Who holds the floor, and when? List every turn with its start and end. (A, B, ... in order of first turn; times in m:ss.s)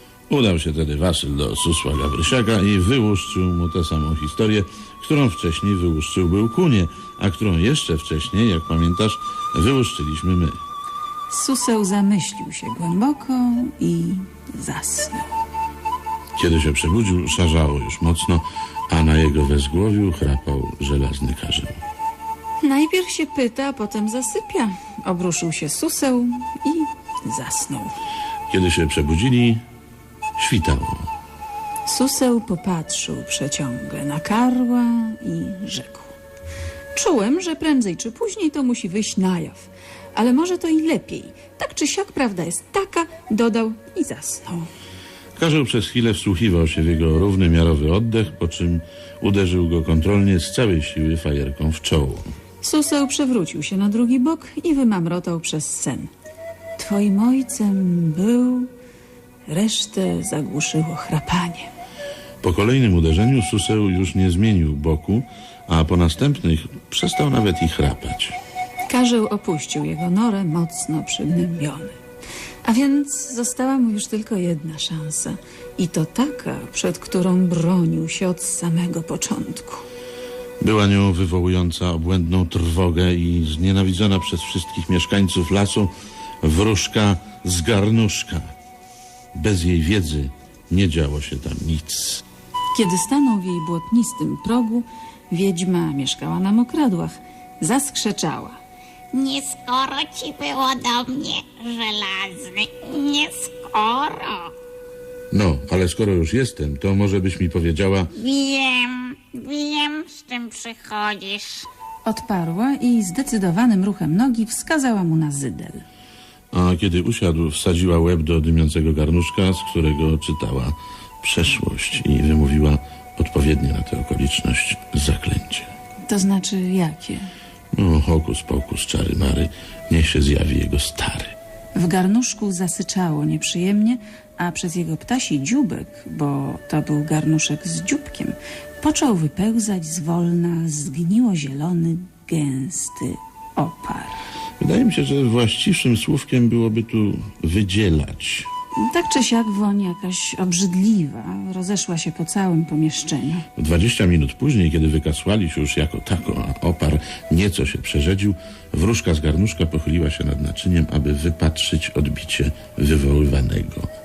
0:00.3-0:10.6 A
0:11.3-0:15.3 B
0:16.4-0:21.7 A
0:22.6-0:28.0 B
0:28.5-0:29.6 A
0:30.4-0:31.1 A
0:31.8-0:36.1 B
0:36.9-0:44.7 B
0:45.4-0:52.3 A
0:52.6-0:56.1 B
0:56.8-0:58.7 B
0:59.5-1:01.7 B
1:02.4-1:08.3 A
1:08.9-1:12.0 B
1:12.6-1:19.8 B
1:20.6-1:25.9 A
1:26.4-1:28.4 A
1:29.3-1:32.2 A
1:32.7-1:38.6 B
1:39.1-1:44.4 C
1:42.1-1:42.6 B
1:45.3-1:48.1 A
1:48.2-1:51.6 C
1:52.0-1:55.8 B
1:56.5-2:05.7 A
2:06.1-2:07.3 B
2:07.7-2:11.3 A
2:11.7-2:24.2 B
2:24.6-2:28.5 A
2:28.8-2:33.4 B
2:33.6-2:43.9 A